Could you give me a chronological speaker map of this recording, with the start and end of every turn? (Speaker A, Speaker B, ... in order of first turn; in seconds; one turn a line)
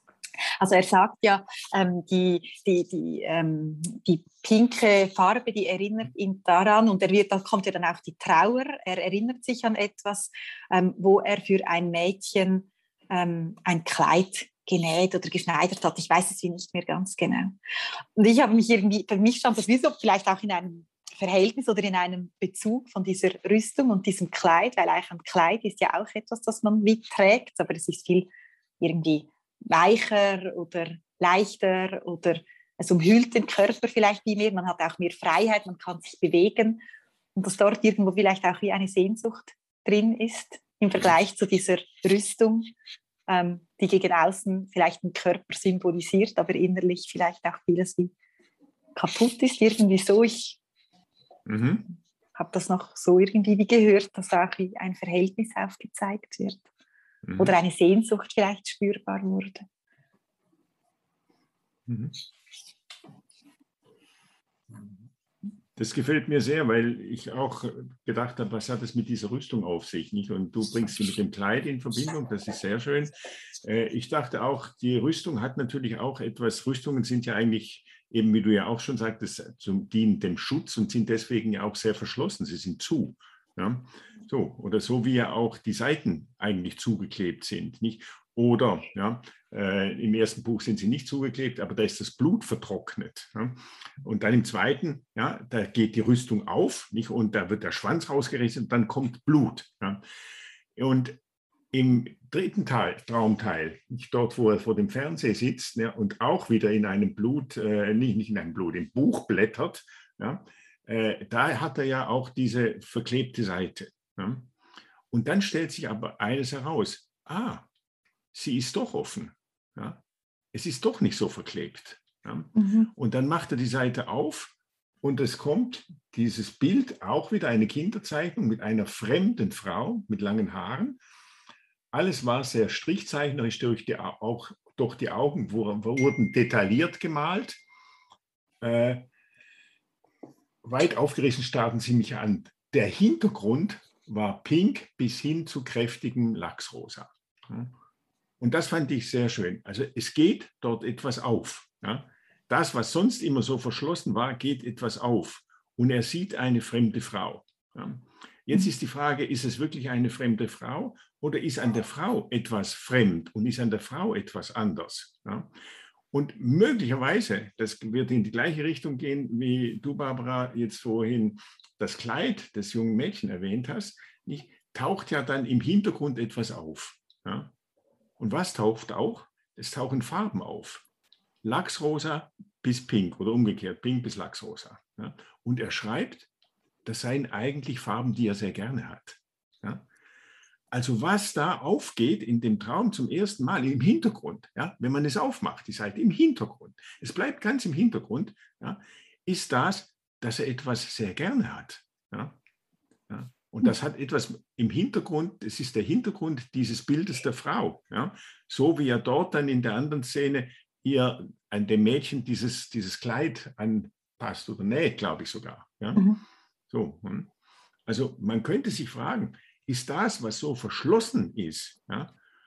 Speaker A: 0.6-17.6
Speaker A: 18.1-28.3
Speaker A: 28.8-36.8
Speaker A: 37.4-42.7
Speaker A: 43.3-48.1
Speaker A: 49.0-50.6
Speaker B: 51.5-51.9
Speaker A: 52.4-56.6
Speaker B: 57.2-57.5
Speaker A: 57.4-59.6
Speaker B: 61.9-62.2
Speaker B: 65.8-100.0
Speaker B: 100.8-101.2
Speaker B: 101.7-114.5
Speaker B: 115.1-117.7
Speaker B: 118.3-120.0
Speaker B: 120.5-131.0
Speaker A: 122.5-122.9
Speaker B: 131.9-137.6
Speaker B: 138.6-139.0
Speaker B: 140.6-147.7
Speaker B: 148.4-165.5
Speaker B: 166.1-177.5
Speaker B: 178.2-180.8
Speaker B: 181.4-186.3
Speaker B: 186.8-189.8
Speaker B: 190.7-202.3
Speaker B: 203.1-216.1
Speaker A: 215.9-216.2
Speaker B: 216.7-217.3
Speaker B: 217.9-222.1